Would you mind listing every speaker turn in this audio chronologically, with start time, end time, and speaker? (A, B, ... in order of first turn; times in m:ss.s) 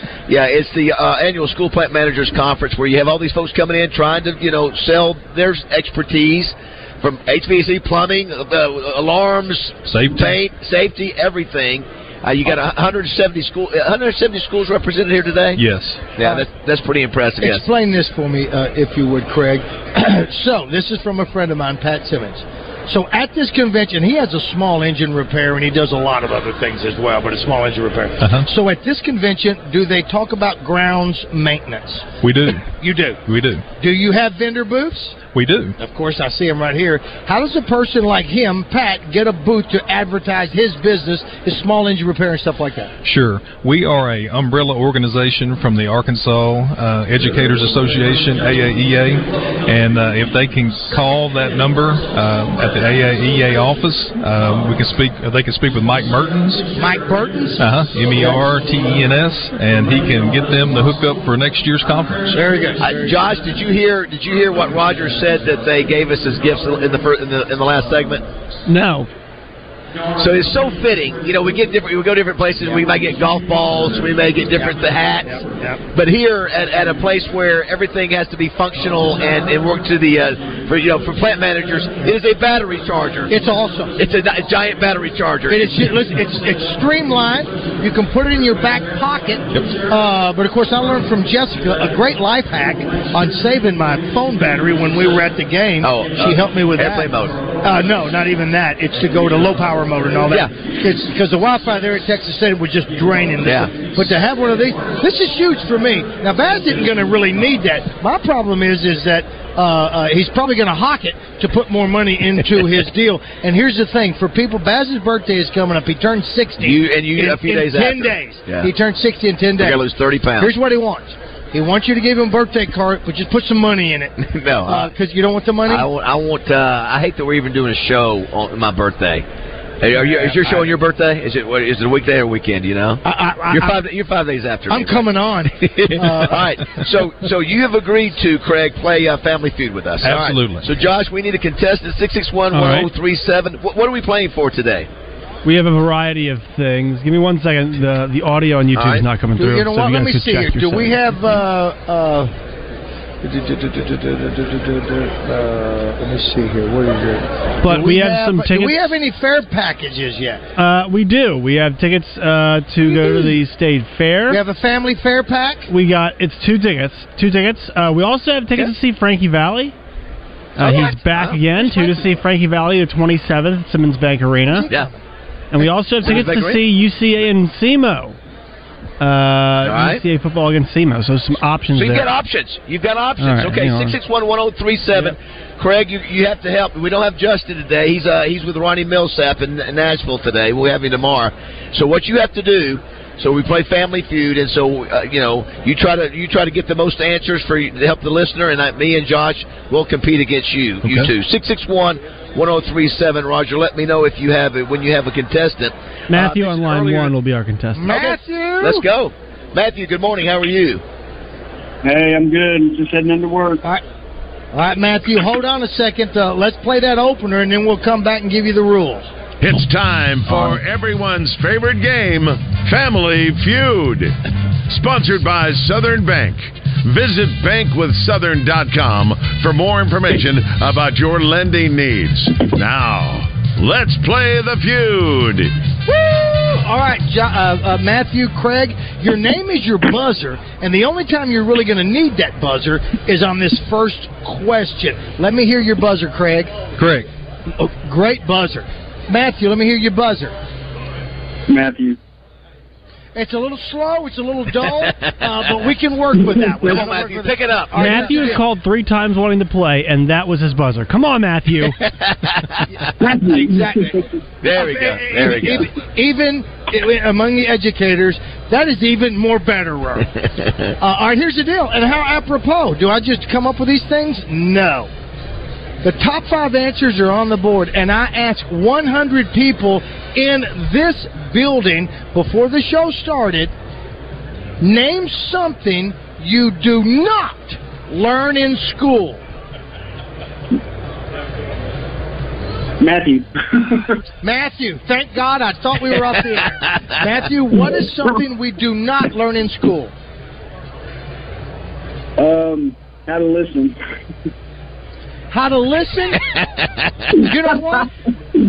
0:00.3-0:15.6 A
0:09.9-0:10.4 B
0:15.6-0:16.0 B
0:16.2-0:17.6 A
0:17.4-0:32.0 C
0:28.2-0:28.5 B
0:32.2-0:32.7 B
0:32.8-0:33.2 C
0:33.2-0:33.6 B
0:33.8-0:35.2 C
0:35.3-0:35.8 B
0:35.8-0:42.9 C
0:43.0-0:56.6 B
0:56.8-0:58.4 C
0:57.6-1:02.4 B
1:02.3-1:03.1 C
1:02.8-1:08.2 A
1:08.7-1:09.1 D
1:10.2-1:15.4 A
1:14.6-1:15.8 C
1:15.9-1:23.3 A
1:23.3-1:23.9 C
1:24.0-1:25.9 A
1:25.5-1:59.8 C
1:35.8-1:37.4 A
1:43.4-1:43.7 A
1:56.6-1:58.7 A
1:59.6-2:00.5 A
2:00.4-2:04.1 C
2:04.2-2:04.9 A
2:04.6-2:05.9 C
2:05.6-2:09.2 A
2:09.8-2:24.9 A
2:09.9-2:10.7 C
2:13.0-2:13.8 C
2:14.7-2:16.5 C
2:20.0-2:20.7 B
2:22.5-2:22.9 D
2:25.4-2:31.2 D
2:28.7-2:29.0 A
2:29.4-2:32.3 C
2:33.2-2:40.4 C
2:37.6-2:38.9 D
2:40.6-2:44.4 D
2:42.8-2:43.3 C
2:44.3-2:45.7 C
2:45.7-2:49.7 D
2:50.6-2:52.0 A
2:50.6-2:54.7 D
2:51.6-2:51.9 C
2:54.5-2:55.0 C
2:55.5-2:58.2 D
2:56.0-2:56.6 A
2:59.0-3:02.1 D
2:59.6-3:00.0 A
3:01.7-3:27.1 A
3:03.2-3:04.0 D
3:20.8-3:21.1 B
3:26.1-3:28.0 D
3:27.8-3:28.8 C
3:27.9-3:30.8 A
3:31.8-3:33.6 E
3:34.5-3:39.1 C
3:39.4-3:44.1 F
3:44.7-3:55.5 F
3:55.8-4:06.5 C
4:06.8-4:07.1 B
4:07.6-4:10.3 C
4:11.5-4:12.0 E
4:13.1-4:18.4 C
4:14.6-4:15.6 A
4:16.3-4:16.6 E
4:16.6-4:18.4 A
4:17.8-4:21.7 D
4:21.8-4:22.6 A
4:22.8-4:30.1 C
4:23.0-4:24.0 E
4:24.4-4:25.7 A
4:30.2-4:30.7 A
4:30.8-4:34.9 C
4:35.8-4:43.5 C
4:44.6-4:49.2 C
4:52.8-4:53.9 E
4:54.2-4:59.9 C
5:02.2-5:03.8 E
5:05.3-5:06.2 C
5:06.3-5:06.9 A
5:07.1-5:07.9 C